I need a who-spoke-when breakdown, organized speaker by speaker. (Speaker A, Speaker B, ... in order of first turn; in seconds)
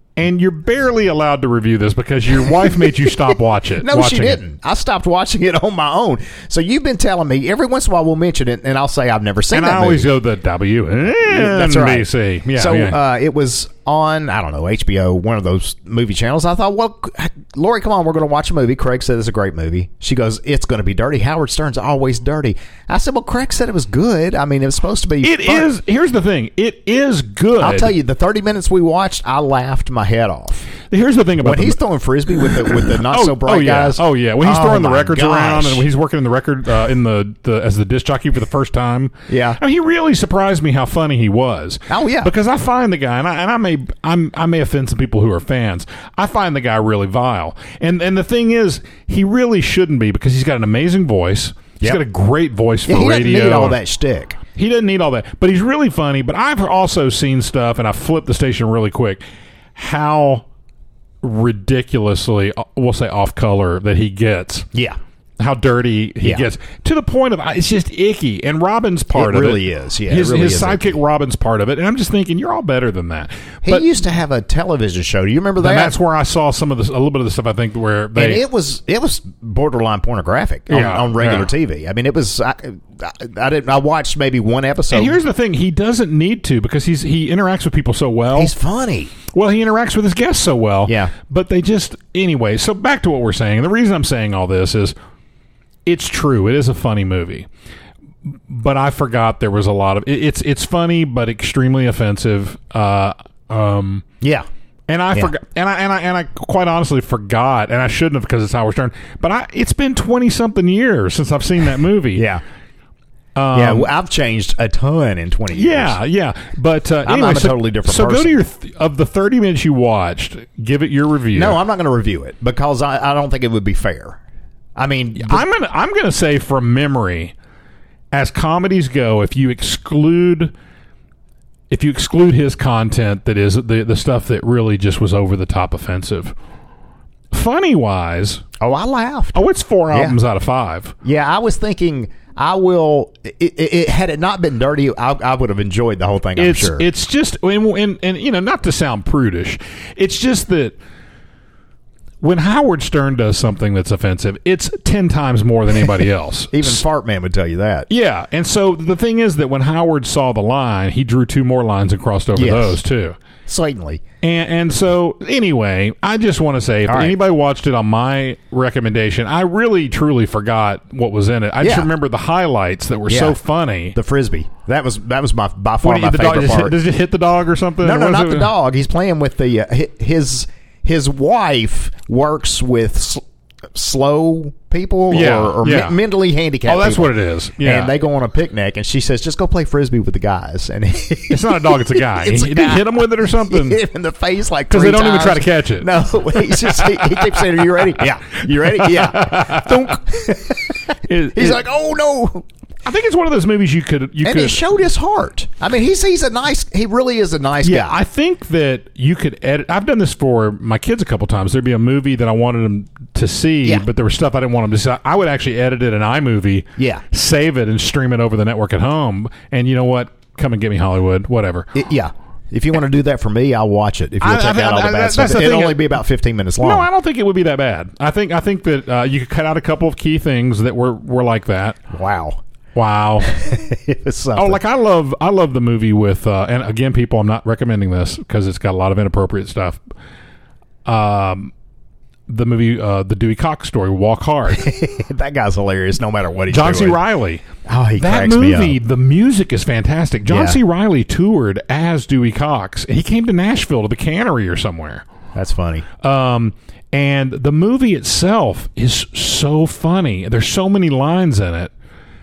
Speaker A: 0.2-4.4, 9.5-13.0, 25.2-27.9, 30.9-31.8, 32.7-53.8, 54.5-59.2, 59.7-60.5, 61.2-64.7, 65.4-73.9, 75.6-78.4, 80.7-81.5, 84.9-88.5, 89.3-94.9, 95.8-97.5, 98.2-104.0, 104.9-112.3, 113.3-113.9, 115.5-121.6, 125.2-127.3, 128.1-130.5, 131.7-136.3, 137.3-138.4, 139.3-140.9, 146.3-150.8, 152.2-156.8, 157.9-163.2, 164.2-174.0, 175.8-178.5, 185.1-186.0, 186.7-187.9, 191.3-193.8, 194.7-197.5, 198.6-200.1, 201.0-201.6, 202.8-204.6, 207.6-221.7, 224.2-225.9, 226.6-231.8, 232.7-233.3, 234.3-239.8, 240.8-241.5, 242.3-244.7, 246.5-255.1, 256.0-261.7
Speaker B: 3.3-10.1, 11.2-25.7, 27.6-30.6, 31.4-35.8, 39.3-39.6, 41.9-42.3, 52.9-54.4, 69.1-71.0, 73.6-75.9, 78.1-85.2, 88.3-89.1, 90.8-91.1, 104.2-104.5, 112.2-112.4, 113.5-116.0, 117.0-118.4, 121.3-124.2, 124.8-125.4, 138.6-140.2, 141.0-146.8, 156.5-157.9, 162.3-162.8, 163.5-164.0, 166.8-167.2, 171.6-171.9, 173.1-173.4, 173.9-176.8, 177.8-202.4, 204.2-208.0, 216.8-217.0, 221.7-226.9, 231.9-232.4, 233.2-234.6, 244.5-247.0, 247.6-248.8, 250.2-250.6, 255.3-255.8